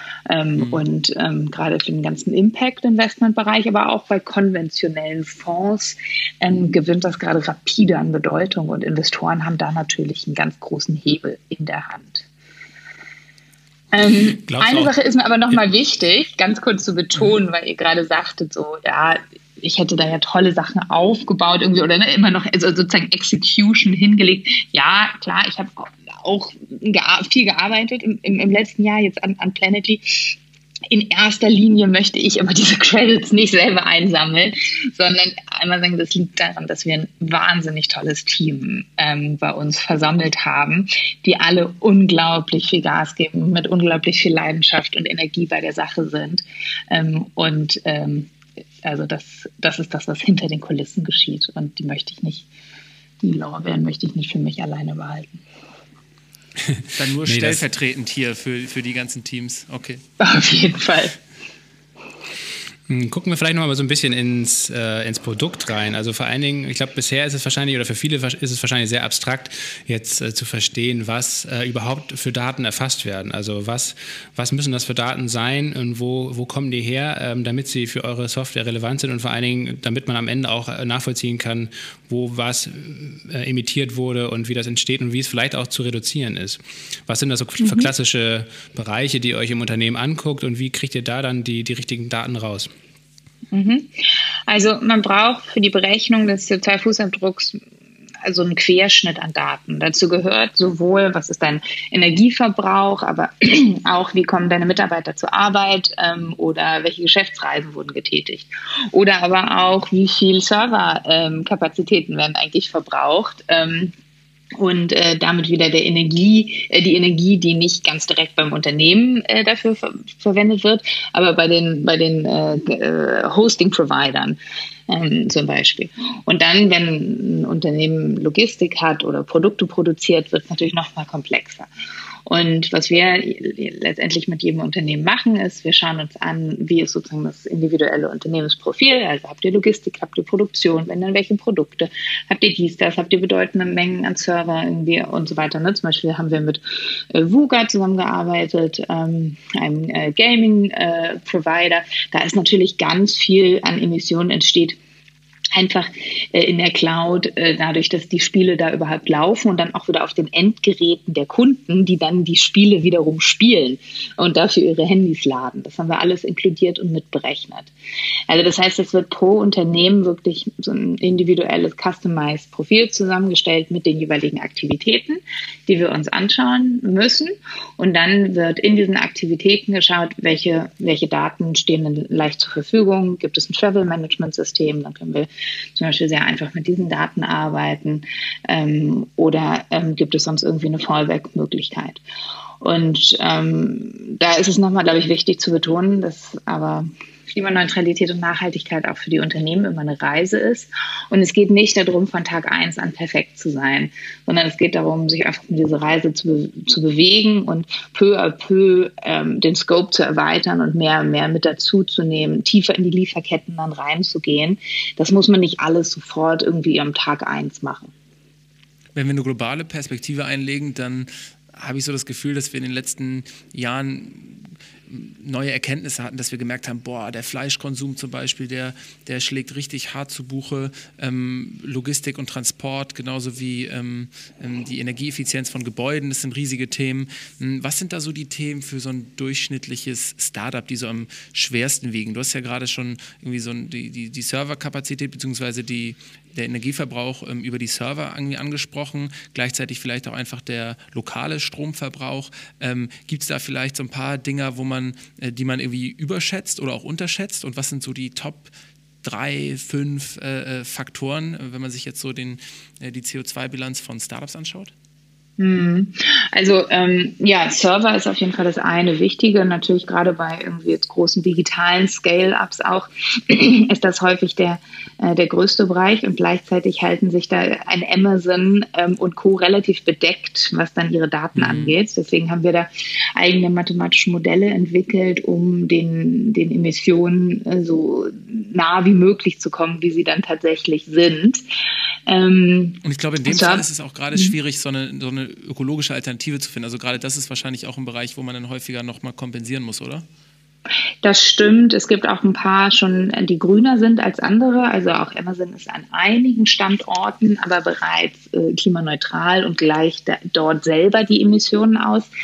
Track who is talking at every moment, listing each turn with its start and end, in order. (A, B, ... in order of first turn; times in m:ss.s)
0:00.3-0:12.3 A
0:00.6-0:00.8 B
0:13.9-0:30.4 A
0:14.6-0:14.9 C
0:30.9-0:48.3 A
0:48.8-0:52.5 A
0:53.2-0:55.4 A
0:56.6-0:57.6 C
0:56.9-1:00.0 B
1:00.2-1:01.2 A
1:02.9-1:32.7 C
1:27.6-1:27.9 A
1:33.5-1:33.9 A
1:34.5-1:37.6 A
1:38.2-1:53.9 A
1:54.6-2:04.4 A
2:04.9-2:11.7 A
2:12.3-2:34.8 A
2:35.6-2:47.7 A
2:48.3-3:12.0 A
3:12.6-3:37.9 A
3:39.0-4:18.5 B
4:19.0-4:24.7 B
4:25.4-4:51.4 A
4:41.4-4:41.8 B
4:52.1-4:54.3 A
4:52.8-5:00.0 B
5:01.0-5:12.1 A